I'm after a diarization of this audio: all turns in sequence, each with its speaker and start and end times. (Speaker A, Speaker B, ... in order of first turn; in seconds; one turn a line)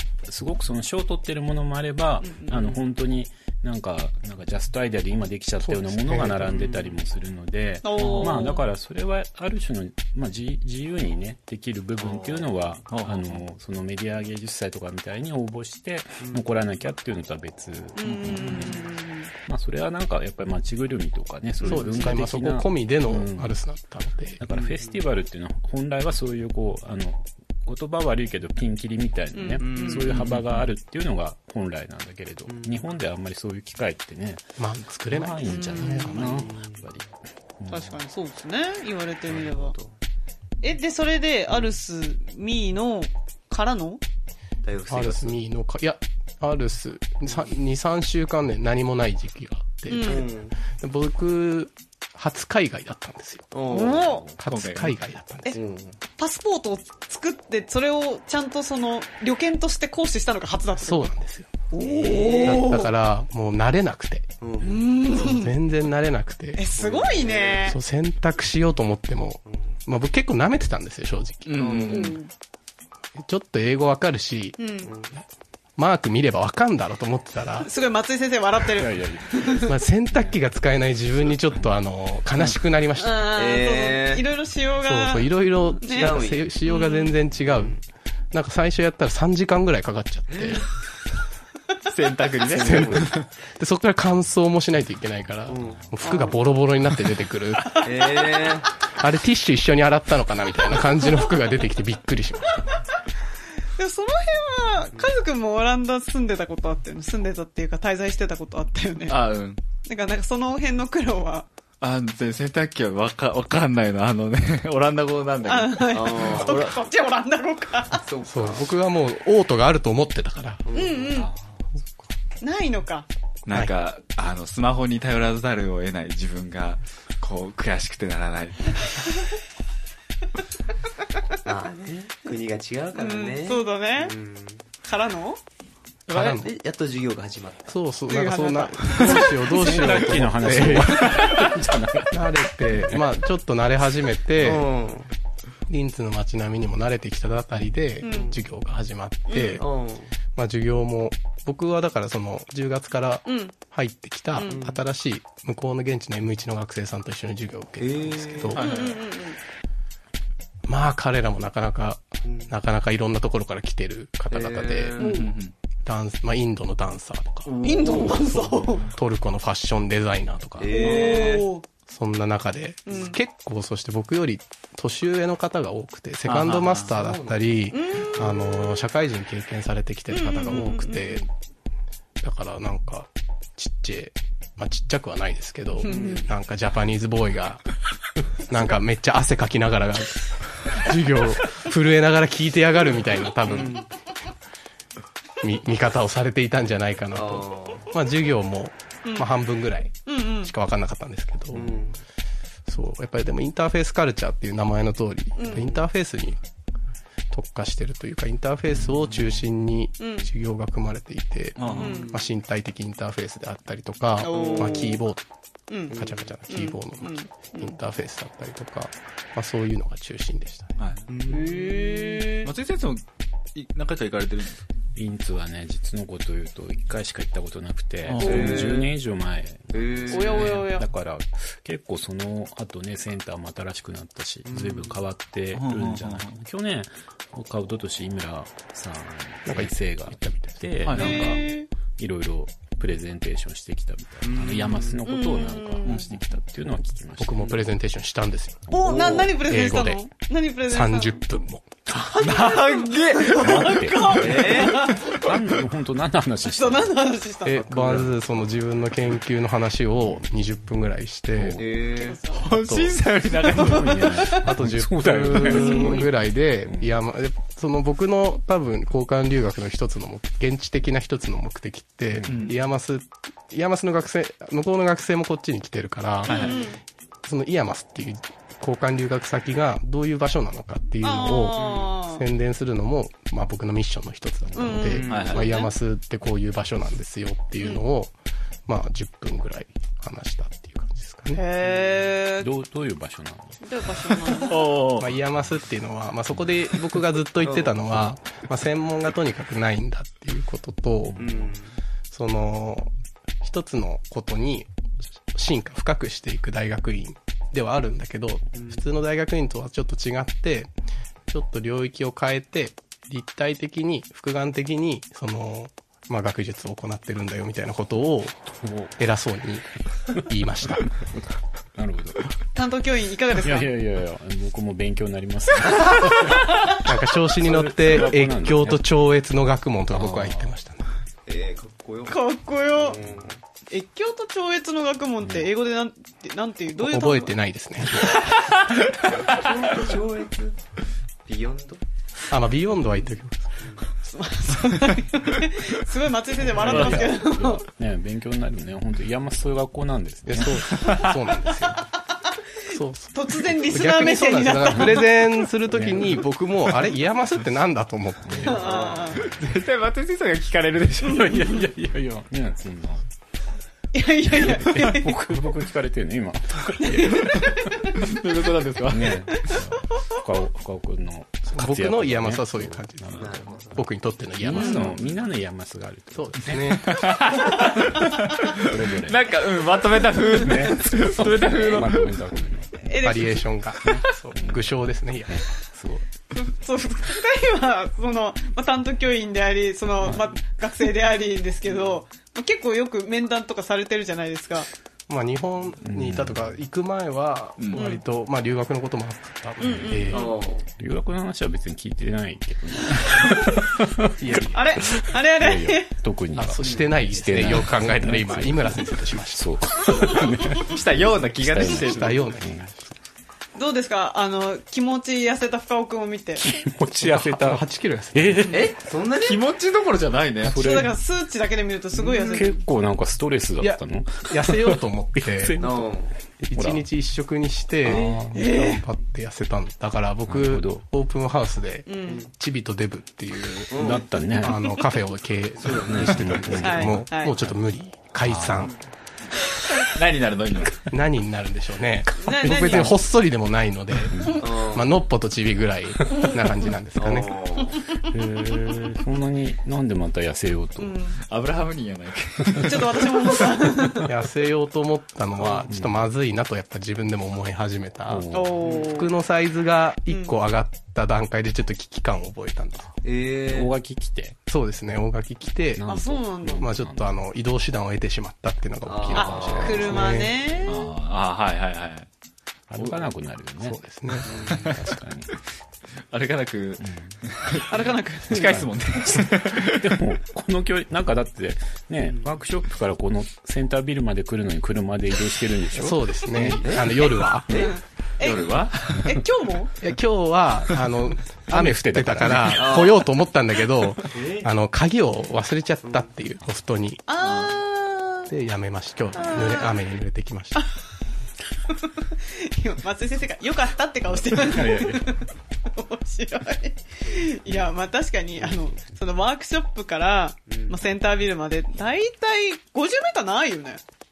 Speaker A: 0.3-23.6
Speaker B: 2.2-2.8
Speaker C: 5.6-6.7
Speaker B: 7.8-8.6
Speaker D: 8.0-8.4
Speaker D: 12.9-13.4
Speaker B: 17.9-19.3
Speaker B: 21.6-22.1
Speaker C: 21.6-24.4
Speaker A: 24.4-34.5
Speaker E: 24.5-25.0
Speaker B: 29.3-30.3
Speaker E: 29.6-30.4
Speaker E: 32.5-32.8
Speaker C: 34.6-36.5
Speaker A: 35.1-37.1
Speaker B: 35.5-36.2
Speaker E: 36.1-36.8
Speaker A: 37.6-37.9
Speaker B: 37.7-39.7
Speaker E: 39.3-39.9
Speaker B: 40.6-44.0
Speaker E: 44.6-45.3
Speaker C: 44.9-53.5
Speaker B: 49.9-50.2
Speaker E: 50.0-50.5
Speaker E: 53.5-54.2
Speaker B: 53.7-54.3
Speaker C: 54.4-55.6
Speaker D: 54.5-55.0
Speaker E: 55.5-56.0
Speaker B: 56.2-61.1
Speaker C: 60.8-64.3
Speaker B: 61.7-62.9
Speaker E: 61.8-62.8
Speaker E: 64.4-64.9
Speaker B: 64.6-65.5
Speaker C: 65.0-66.7
Speaker B: 66.5-67.8
Speaker E: 66.8-67.7
Speaker C: 67.6-72.1
Speaker D: 71.5-72.2
Speaker E: 71.6-72.2
Speaker B: 71.9-72.3
Speaker C: 73.2-74.6
Speaker B: 74.6-74.9
Speaker E: 74.8-75.1
Speaker C: 75.8-77.7
Speaker B: 77.6-79.7
Speaker A: 78.7-80.3
Speaker C: 79.6-83.3
Speaker B: 83.0-87.1
Speaker E: 83.2-84.3
Speaker C: 84.8-87.8
Speaker E: 85.9-86.5
Speaker E: 87.5-87.8
Speaker C: 88.3-90.7
Speaker E: 90.3-90.6
Speaker D: 91.8-93.3
Speaker C: 92.5-98.1
Speaker E: 92.5-92.8
Speaker E: 95.5-96.3
Speaker B: 96.0-96.3
Speaker E: 97.8-98.7
Speaker C: 98.9-102.7
Speaker B: 103.8-109.2
Speaker D: 109.1-109.6
Speaker B: 109.8-111.5
Speaker D: 111.8-116.8
Speaker B: 115.4-118.0
Speaker E: 115.9-116.7
Speaker E: 118.0-118.7
Speaker C: 118.2-120.6
Speaker E: 120.7-121.1
Speaker B: 120.7-121.3
Speaker B: 122.4-123.0
Speaker D: 123.5-129.1
Speaker E: 131.4-134.6
Speaker B: 132.9-134.1
Speaker B: 134.8-135.4
Speaker C: 136.1-136.5
Speaker D: 136.1-136.4
Speaker E: 136.4-137.7
Speaker C: 137.7-141.4
Speaker B: 138.1-140.0
Speaker A: 139.5-143.0
Speaker D: 141.1-141.5
Speaker C: 142.1-144.7
Speaker E: 144.4-145.1
Speaker C: 145.7-149.7
Speaker B: 148.0-148.3
Speaker E: 148.1-148.4
Speaker B: 149.3-149.6
Speaker E: 149.6-150.1
Speaker C: 150.3-158.6
Speaker B: 153.2-153.5
Speaker B: 154.3-154.6
Speaker E: 154.4-154.8
Speaker E: 157.8-158.7
Speaker D: 158.5-159.0
Speaker B: 158.5-159.4
Speaker C: 160.7-165.0
Speaker E: 162.2-162.5
Speaker E: 164.3-165.2
Speaker B: 165.0-165.3
Speaker D: 165.0-165.5
Speaker C: 165.8-171.3
Speaker D: 167.5-168.2
Speaker B: 167.6-168.9
Speaker E: 170.6-171.5
Speaker B: 170.7-171.6
Speaker C: 171.9-181.2
Speaker B: 172.8-173.2
Speaker D: 176.2-176.9
Speaker E: 176.9-177.4
Speaker B: 177.7-178.4
Speaker B: 180.1-181.3
Speaker C: 182.2-187.7
Speaker B: 185.8-186.2
Speaker E: 185.8-186.3
Speaker C: 188.4-193.8
Speaker E: 193.5-193.8
Speaker C: 195.4-201.9
Speaker E: 197.1-197.9
Speaker B: 200.1-200.5
Speaker E: 201.5-202.0
Speaker C: 202.7-206.4
Speaker B: 205.3-205.7
Speaker E: 205.5-205.8
Speaker C: 207.3-215.2
Speaker B: 210.0-210.3
Speaker D: 211.6-212.0
Speaker E: 211.7-212.2
Speaker B: 211.8-212.1
Speaker B: 214.2-215.0
Speaker E: 214.3-214.9
Speaker B: 215.7-215.9
Speaker C: 215.9-220.8
Speaker E: 215.9-216.3
Speaker B: 216.5-217.7
Speaker D: 220.8-221.0
Speaker E: 221.1-221.6
Speaker B: 221.2-222.5
Speaker D: 222.3-223.0
Speaker D: 223.5-224.6
Speaker A: 224.9-247.6
Speaker D: 228.0-228.8
Speaker E: 228.2-228.9
Speaker E: 229.7-230.5
Speaker B: 230.1-230.9
Speaker E: 234.4-234.9
Speaker D: 235.5-236.4
Speaker C: 239.4-240.5
Speaker D: 240.8-241.3
Speaker B: 240.9-241.7
Speaker E: 244.2-244.9
Speaker B: 245.0-246.1
Speaker C: 247.2-250.0
Speaker B: 248.7-251.2
Speaker E: 248.8-249.3
Speaker C: 250.7-251.7
Speaker B: 251.9-255.2
Speaker D: 252.1-253.7
Speaker A: 253.2-257.1
Speaker E: 254.1-254.9
Speaker B: 256.4-257.7
Speaker C: 257.4-261.7
Speaker A: 257.8-258.1
Speaker A: 261.3-261.7
Speaker E: 261.6-262.2
Speaker B: 261.9-262.5
Speaker D: 262.3-264.1
Speaker C: 262.4-263.0
Speaker A: 263.5-266.9
Speaker B: 263.5-264.4
Speaker C: 264.4-276.7
Speaker B: 265.4-266.0
Speaker A: 272.2-272.5
Speaker D: 272.3-272.5
Speaker D: 276.2-276.6
Speaker B: 276.3-276.8
Speaker C: 277.2-288.1
Speaker B: 281.0-282.2
Speaker B: 284.5-285.7
Speaker E: 284.9-285.5
Speaker D: 285.0-285.5
Speaker C: 288.7-291.4
Speaker B: 291.3-292.5
Speaker A: 292.4-293.6
Speaker B: 293.6-294.7
Speaker D: 294.3-295.1
Speaker C: 295.0-301.3
Speaker E: 297.4-297.7
Speaker A: 301.1-301.4
Speaker E: 301.2-301.8
Speaker C: 302.1-304.7
Speaker C: 305.3-310.7
Speaker E: 308.6-308.8
Speaker C: 311.3-320.9
Speaker A: 318.5-318.9
Speaker A: 321.1-322.2
Speaker B: 322.5-323.7
Speaker A: 323.3-328.8
Speaker C: 326.7-330.9
Speaker A: 329.9-330.5
Speaker E: 331.2-332.2
Speaker B: 332.1-333.0
Speaker E: 332.7-333.4
Speaker B: 333.7-337.3
Speaker A: 335.2-335.5
Speaker C: 336.8-338.2
Speaker E: 339.0-340.6
Speaker E: 341.2-341.8
Speaker C: 342.3-343.6
Speaker E: 343.6-343.8
Speaker B: 344.0-347.6
Speaker A: 346.4-350.9
Speaker D: 346.6-347.0
Speaker C: 350.3-351.8
Speaker D: 350.7-351.1
Speaker C: 352.7-358.7
Speaker B: 353.1-355.3
Speaker A: 355.7-356.2
Speaker A: 358.2-358.6
Speaker B: 358.4-359.2
Speaker E: 358.5-359.2
Speaker D: 359.2-361.6
Speaker A: 361.0-363.0
Speaker B: 363.9-365.2
Speaker A: 364.3-367.7
Speaker B: 366.8-368.0
Speaker D: 368.0-369.2
Speaker A: 368.8-373.8
Speaker C: 371.5-374.9
Speaker E: 373.1-373.8
Speaker A: 374.4-376.9
Speaker B: 374.5-374.8
Speaker C: 376.1-377.0
Speaker D: 376.8-382.2
Speaker A: 377.9-379.3
Speaker A: 380.3-383.1
Speaker B: 382.8-383.4
Speaker C: 383.0-385.4
Speaker A: 383.8-384.7
Speaker A: 385.3-386.1
Speaker B: 386.3-394.7
Speaker A: 390.0-390.3
Speaker E: 391.7-392.0
Speaker C: 395.1-400.3
Speaker A: 395.8-396.4
Speaker D: 397.6-397.8
Speaker B: 397.7-398.0
Speaker B: 399.6-400.3
Speaker A: 399.8-400.2
Speaker E: 400.1-400.7
Speaker A: 400.8-410.8
Speaker C: 404.2-404.6
Speaker B: 404.5-405.9
Speaker C: 406.3-409.6
Speaker D: 410.5-412.4
Speaker A: 411.4-412.9
Speaker C: 411.6-412.6
Speaker B: 413.5-416.4
Speaker A: 416.4-418.8
Speaker C: 417.0-418.5
Speaker E: 418.5-419.4
Speaker D: 419.1-420.6
Speaker A: 420.4-421.0
Speaker B: 420.5-422.6
Speaker A: 422.2-426.0
Speaker C: 423.6-425.6
Speaker E: 425.6-426.1
Speaker C: 426.4-438.7
Speaker A: 426.5-426.8
Speaker A: 427.8-428.5
Speaker B: 428.3-428.8
Speaker A: 430.3-430.8
Speaker B: 431.9-432.2
Speaker E: 433.7-434.1
Speaker A: 433.7-434.7
Speaker E: 435.6-436.6
Speaker A: 435.7-437.5
Speaker B: 436.6-437.3
Speaker A: 438.2-438.7
Speaker D: 439.7-440.9
Speaker C: 440.9-447.3
Speaker B: 442.2-443.0
Speaker A: 444.1-444.4
Speaker E: 444.4-444.9
Speaker E: 446.9-447.8
Speaker A: 447.9-451.1
Speaker B: 450.8-451.2
Speaker D: 451.2-453.5
Speaker B: 452.6-454.1
Speaker C: 454.0-458.3
Speaker A: 455.5-456.0
Speaker A: 458.1-458.6
Speaker B: 458.3-459.1
Speaker C: 458.8-462.9
Speaker E: 463.0-463.7
Speaker A: 463.4-464.4
Speaker C: 464.5-465.8
Speaker A: 465.7-467.1
Speaker B: 465.9-466.6
Speaker C: 466.5-470.4
Speaker E: 468.8-469.9
Speaker B: 469.1-470.9
Speaker A: 469.1-470.0
Speaker D: 470.6-472.1
Speaker A: 472.7-475.3
Speaker C: 473.6-474.3
Speaker E: 474.2-474.7
Speaker D: 474.4-474.8
Speaker D: 476.1-477.8
Speaker A: 476.8-477.1
Speaker B: 477.7-478.6
Speaker D: 478.3-480.0
Speaker A: 478.4-487.1
Speaker C: 485.7-487.7
Speaker E: 486.6-486.9
Speaker E: 487.5-487.7
Speaker B: 487.5-489.7
Speaker D: 488.2-489.1
Speaker C: 489.8-497.0
Speaker A: 491.5-492.8
Speaker E: 492.5-493.0
Speaker E: 494.1-494.5
Speaker B: 497.1-498.3
Speaker D: 497.2-497.6
Speaker C: 498.3-500.6
Speaker B: 499.1-499.7
Speaker B: 501.6-513.8
Speaker A: 504.3-505.1
Speaker E: 510.5-510.8